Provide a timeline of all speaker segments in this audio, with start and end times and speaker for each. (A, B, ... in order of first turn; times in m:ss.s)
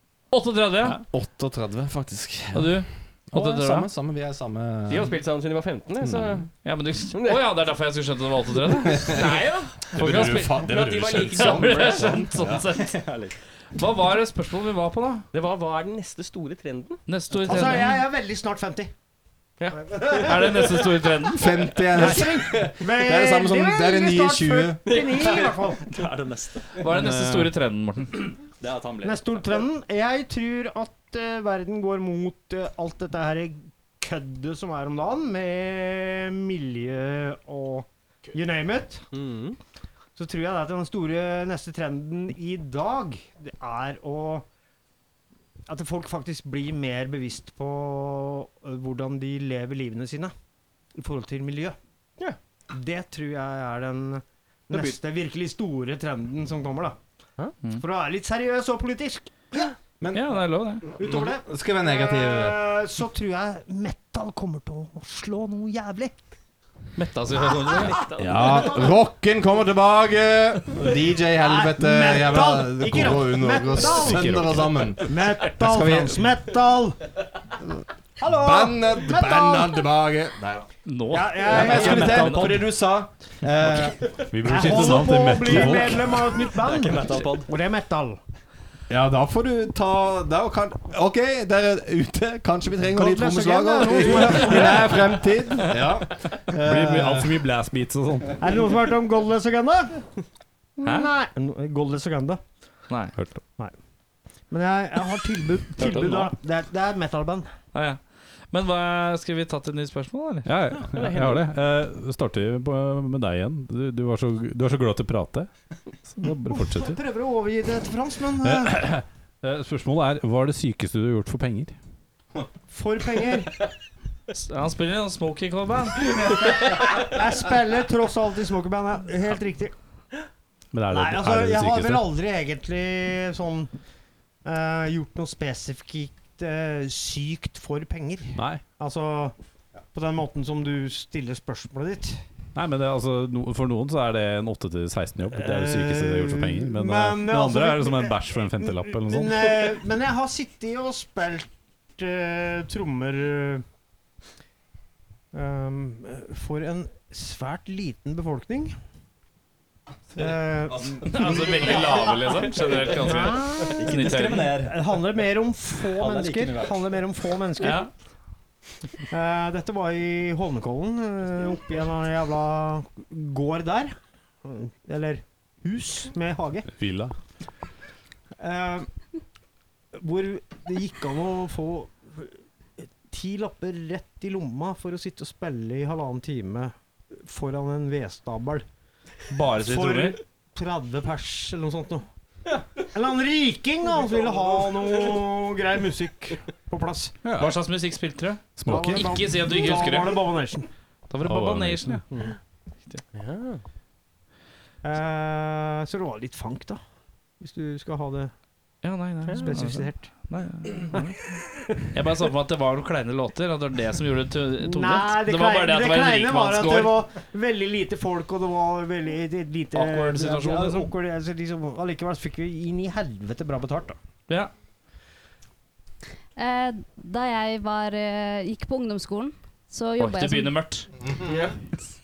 0:00.3-0:01.0 A
0:01.1-0:05.2 B
0:02.5-0:03.9 A
0:04.9-0:06.5 C
0:06.0-0:06.4 B
0:06.6-0:09.2 A
0:07.1-0:07.5 C
0:08.8-0:12.7 B
0:09.0-0:12.2 C
0:09.9-0:12.9 A
0:12.8-0:13.3 D
0:13.7-0:15.2 A
0:15.3-0:17.0 C
0:17.1-0:18.0 A
0:17.4-0:18.9 E
0:19.6-0:20.2 C
0:19.8-0:20.5 E
0:20.2-0:21.6 A
0:21.3-0:25.0 B
0:21.9-0:25.9 E
0:24.8-0:25.5 C
0:25.2-0:26.8 D
0:26.8-0:28.3 A
0:28.6-0:29.4 D
0:29.0-0:39.0 E
0:39.1-0:39.6 C
0:40.2-0:44.4 E
0:45.7-0:50.3 E
0:51.0-0:51.8 E
0:52.7-0:57.0 E
0:54.7-0:55.0 C
0:57.8-0:59.7 E
1:00.0-1:02.6 B
1:00.1-1:00.8 A
1:01.0-1:06.1 E
1:07.0-1:08.0 A
1:07.6-1:08.9 C
1:08.2-1:16.4 B
1:08.3-1:08.9 E
1:11.4-1:14.4 E
1:13.8-1:14.9 F
1:15.0-1:17.0 E
1:18.2-1:19.8 E
1:18.2-1:20.7 B
1:20.8-1:22.5 A
1:21.1-1:22.6 E
1:21.4-1:24.1 B
1:24.3-1:26.2 F
1:24.4-1:28.2 E
1:25.6-1:27.5 D
1:28.9-1:37.4 B
1:32.9-1:35.2 E
1:36.5-1:38.4 F
1:38.4-1:40.0 E
1:40.8-1:42.4 E
1:40.8-1:41.1 A
1:42.9-1:43.1 A
1:44.5-1:47.5 E
1:45.8-1:46.3 D
1:47.7-1:50.5 A
1:50.4-1:55.5 F
1:50.9-1:51.4 C
1:56.1-1:57.0 F
1:56.5-1:58.9 E
1:58.4-2:01.7 F
2:02.7-2:03.6 E
2:04.3-2:06.1 A
2:06.5-2:09.7 E
2:10.7-2:12.1 F
2:10.9-2:13.7 E
2:14.4-2:19.3 E
2:18.4-2:18.6 F
2:19.9-2:22.2 E
2:22.5-2:29.7 F
2:25.3-2:33.6 E
2:35.3-2:38.8 E
2:40.2-2:47.9 E
2:40.2-2:41.5 B
2:41.0-2:44.5 A
2:43.7-2:44.9 D
2:45.8-2:46.8 D
2:47.6-2:47.9 A
2:49.1-2:56.7 E
2:56.8-2:57.1 F
2:58.4-2:58.9 E
2:59.9-3:08.6 E
3:09.3-3:10.2 A
3:09.6-3:12.0 E
3:12.9-3:17.1 E
3:17.2-3:17.5 F
3:17.4-3:20.2 A
3:18.6-3:19.4 F
3:18.6-3:20.6 E
3:21.1-3:22.0 A
3:21.2-3:22.0 F
3:23.1-3:23.6 C
3:24.8-3:26.8 E
3:27.4-3:28.3 E
3:28.8-3:31.2 A
3:29.3-3:30.1 E
3:31.9-3:37.0 A
3:34.6-3:44.0 E
3:39.7-3:40.9 A
3:46.4-3:50.6 G
3:50.0-3:50.9 A
3:51.3-3:51.5 C